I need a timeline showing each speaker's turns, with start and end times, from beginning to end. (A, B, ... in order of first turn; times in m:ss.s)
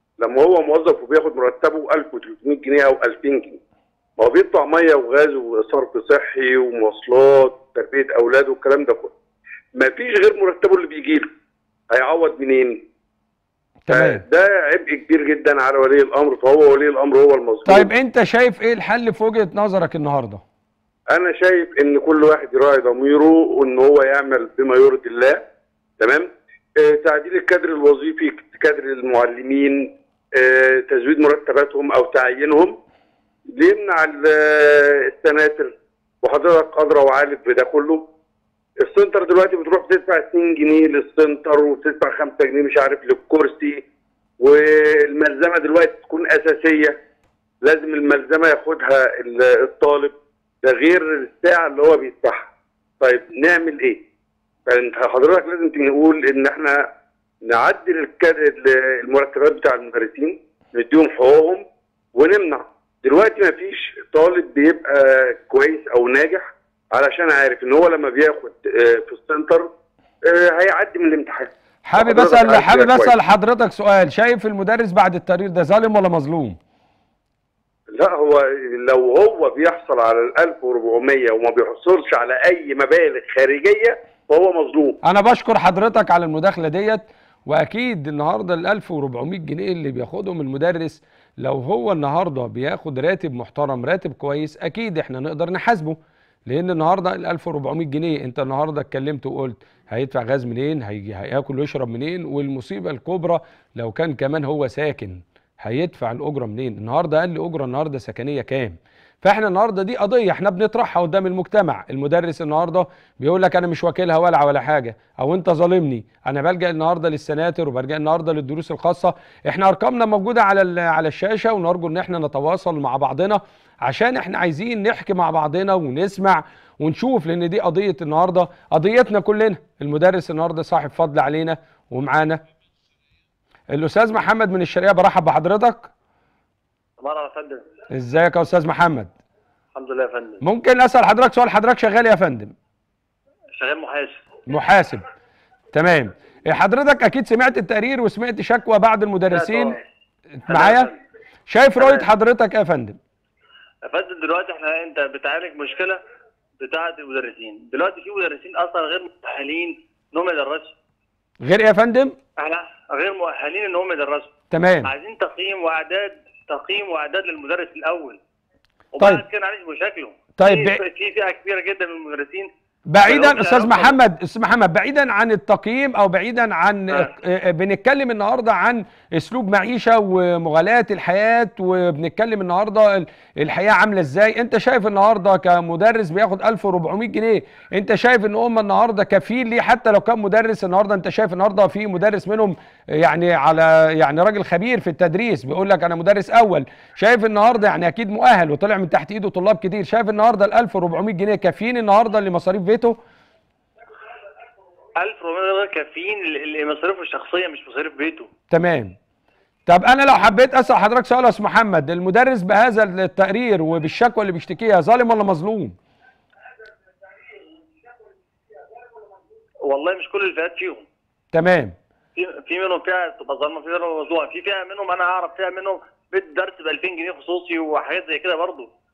0:00.2-0:03.6 A
0:04.2-0:09.1 A
0:09.7-0:11.3 A
0:11.9-0:12.8 A
0:13.8-0:14.2 B
0:13.9-0:17.9 A
0:17.6-0:20.4 B
0:21.1-0:25.4 A
0:26.0-0:32.8 A
0:33.5-0:38.0 A
0:38.8-0:43.8 A
0:44.4-0:47.0 A
0:47.6-0:52.5 A
0:53.0-0:54.0 A
0:54.6-0:56.8 A
0:57.4-1:01.6 A
1:02.2-1:09.7 A
1:10.2-1:13.1 A
1:11.8-1:16.6 B
1:17.9-1:25.0 A
1:25.0-2:12.4 B
2:13.7-2:15.9 B
2:17.0-2:17.6 C
2:17.9-2:19.1 B
2:19.7-2:20.4 C
2:20.4-2:22.5 B
2:23.5-2:24.2 C
2:24.5-2:25.0 B
2:25.7-2:29.8 B
2:29.3-2:29.8 C
2:30.4-2:30.9 B
2:30.5-2:31.0 C
2:31.5-2:33.0 B
2:31.8-2:32.1 C
2:33.8-2:36.0 C
2:36.6-2:40.7 C
2:41.4-2:42.2 B
2:42.4-2:44.3 C
2:44.5-2:44.9 B
2:44.8-2:48.2 C
2:48.9-2:52.5 C
2:50.4-2:50.8 B
2:52.9-3:23.0 B
2:53.0-2:54.0 C
3:25.0-3:28.3 C
3:28.5-3:29.0 B
3:29.7-3:35.8 B
3:39.6-3:40.9 C
3:41.3-3:41.7 B
3:42.2-3:48.7 C